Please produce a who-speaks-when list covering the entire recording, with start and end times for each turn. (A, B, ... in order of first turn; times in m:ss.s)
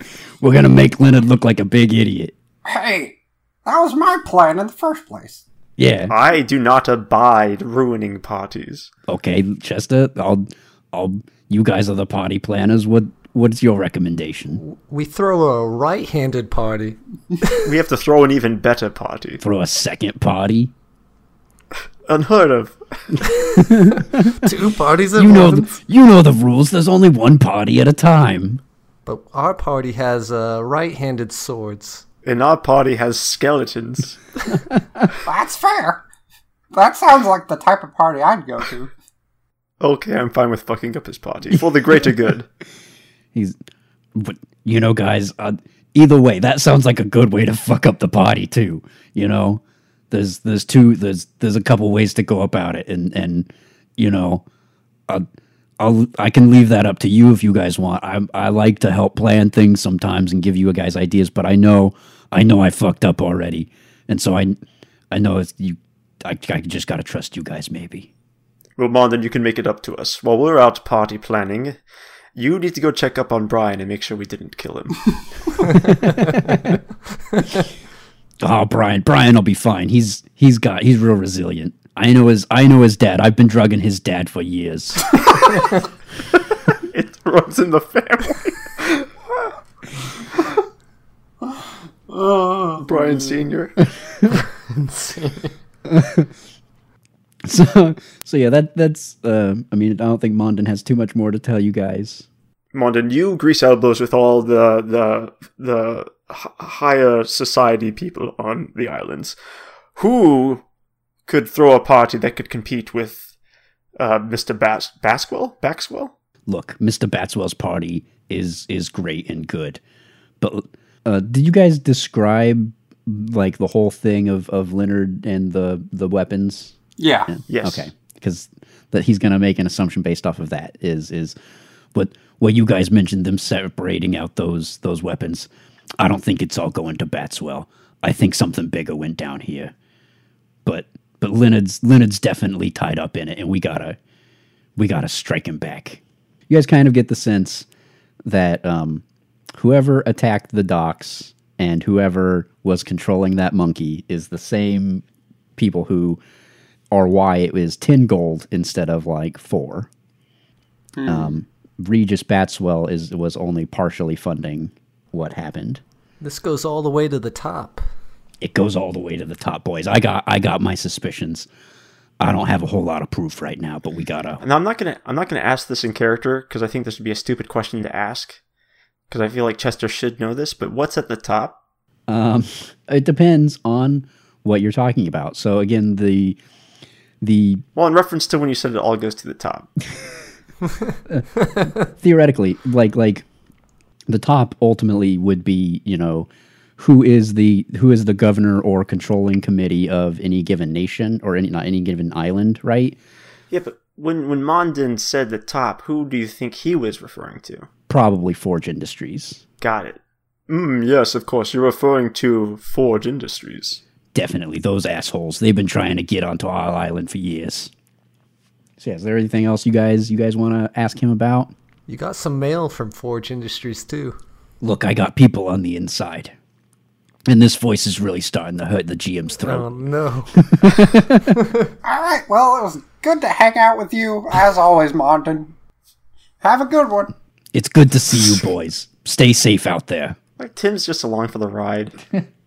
0:00.4-0:02.3 A
0:02.6-0:05.4 B
0:05.8-0:06.1 A
0:06.1-0:08.9 C
0:09.1-0:14.6 A
0:14.6-0:17.6 D
0:17.6-0:19.4 C
0:19.4-0:20.7 A
0:22.1-0:23.2 C
0:23.2-0:25.8 D
0:23.6-0:24.5 A
0:25.1-0:28.6 A
0:29.1-0:32.0 D
0:32.2-0:34.2 C
0:35.2-0:36.0 B
0:36.7-0:38.9 B
0:39.8-0:42.5 C
0:44.1-0:54.4 A
0:55.8-1:04.6 A
1:05.1-1:08.1 A
1:08.8-1:11.8 C
1:12.4-1:15.1 C
1:15.7-1:16.8 A
1:18.4-1:25.2 A
1:26.9-1:29.0 C
1:32.1-1:33.2 B
1:32.8-1:33.8 C
1:34.7-1:35.5 D
1:35.9-1:36.3 A
1:37.4-1:42.2 A
1:42.7-1:49.4 C
1:50.0-1:50.6 C
1:51.3-1:53.3 C
1:54.0-1:56.1 C
1:56.5-1:59.8 A
2:00.4-2:06.8 A
2:07.0-2:07.3 B
2:07.3-2:11.4 A
2:07.5-2:07.9 C
2:11.9-2:19.7 A
2:20.6-2:24.0 A
2:24.8-2:27.7 A
2:28.3-2:29.0 A
2:29.6-2:35.0 A
2:35.6-2:36.2 A
2:36.9-2:39.9 A
2:41.0-2:41.3 B
2:41.0-2:45.8 A
2:46.2-2:47.8 D
2:48.4-2:51.5 A
2:52.2-2:54.4 A
2:54.4-2:58.4 C
2:59.1-3:01.6 C
3:02.1-3:06.4 A
3:07.2-3:07.6 A
3:07.8-3:09.7 C
3:11.1-3:13.2 A
3:14.1-3:23.0 A
3:23.5-3:27.7 C
3:27.9-3:29.4 A
3:29.6-3:33.8 C
3:34.1-3:37.7 A
3:38.8-3:41.5 A
3:41.9-3:44.2 D
3:44.6-3:46.3 A
3:47.3-3:49.7 A
3:49.4-3:50.7 D
3:50.4-3:51.4 A
3:51.3-3:51.7 D
3:51.8-3:55.5 B
3:56.4-3:57.1 B
3:57.5-4:00.2 A
4:00.4-4:02.0 C